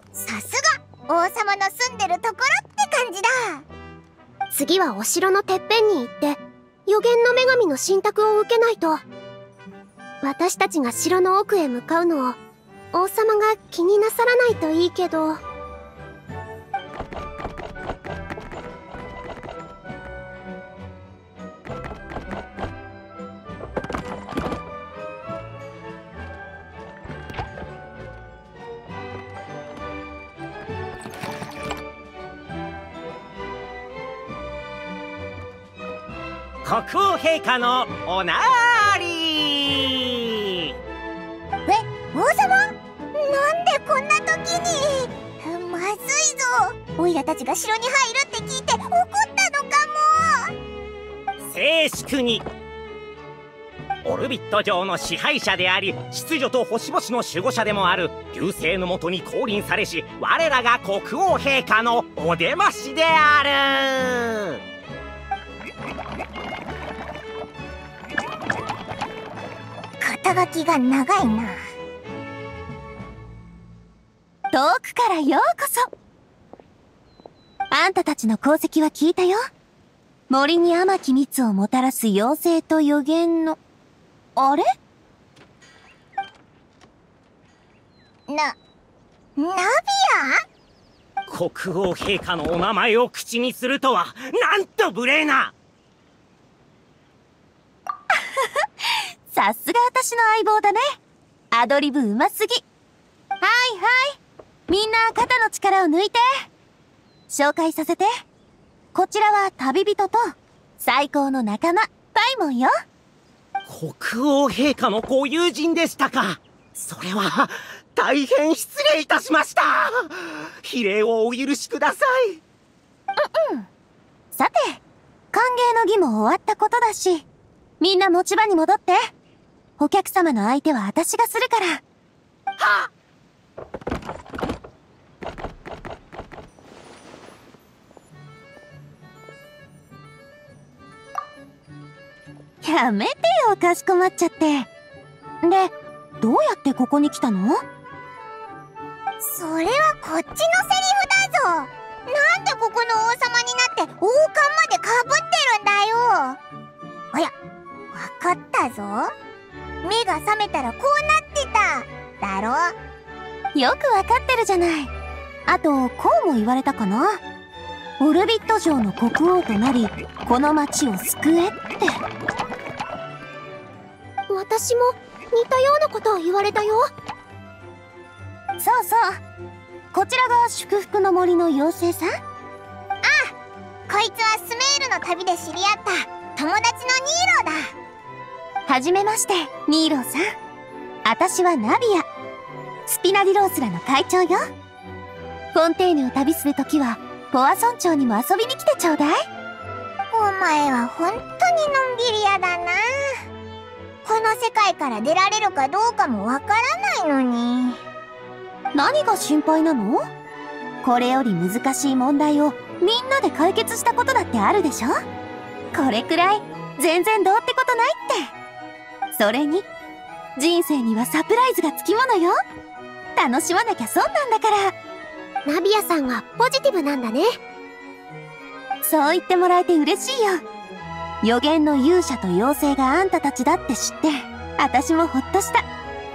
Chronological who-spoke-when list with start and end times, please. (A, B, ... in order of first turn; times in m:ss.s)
0:00.2-0:03.6 A
0:04.5-0:09.0 B
0:10.2-0:12.4 B
0:12.9-0:15.4 B
0:36.6-0:40.6 C
0:41.6-0:50.5 A
0:51.4-0:52.4 C
0:54.0-1:04.6 C
1:10.0-1:11.6 A
1:14.5-1:15.8 D
1:17.7-1:19.4 D
1:20.3-1:23.6 D
1:24.4-1:24.6 D
1:28.3-1:28.6 A
1:29.4-1:30.4 A
1:31.3-1:35.5 C
1:38.1-1:40.8 D
1:41.5-1:42.6 D
1:43.4-1:44.2 D
1:44.7-1:46.2 D
1:47.3-1:48.1 D
1:48.9-1:50.3 D
1:50.8-1:52.7 D
1:53.7-2:02.4 C
2:03.2-2:03.7 D
2:04.3-2:04.8 D
2:05.3-2:07.3 D
2:07.8-2:09.0 D
2:09.8-2:11.8 D
2:12.6-2:12.9 C
2:22.6-2:24.7 D
2:25.4-2:27.6 D
2:29.2-2:36.4 A
2:37.9-2:39.1 A
2:39.8-2:42.7 A
2:43.5-2:44.9 D
2:45.5-2:47.2 D
2:48.0-2:51.9 D
2:54.3-2:56.9 B
2:58.6-2:59.2 D
2:59.9-3:02.1 D
3:03.0-3:03.3 A
3:03.9-3:07.7 A
3:08.6-3:10.2 D
3:11.0-3:12.1 D
3:12.9-3:14.4 D
3:15.5-3:19.2 D
3:20.1-3:22.9 A
3:24.0-3:27.8 A
3:28.7-3:30.0 D
3:30.8-3:34.9 D
3:35.7-3:38.3 D
3:39.1-3:39.6 D
3:40.4-3:42.3 D
3:43.2-3:44.7 D
3:45.4-3:47.3 B
3:48.8-3:50.4 D
3:51.2-3:55.6 D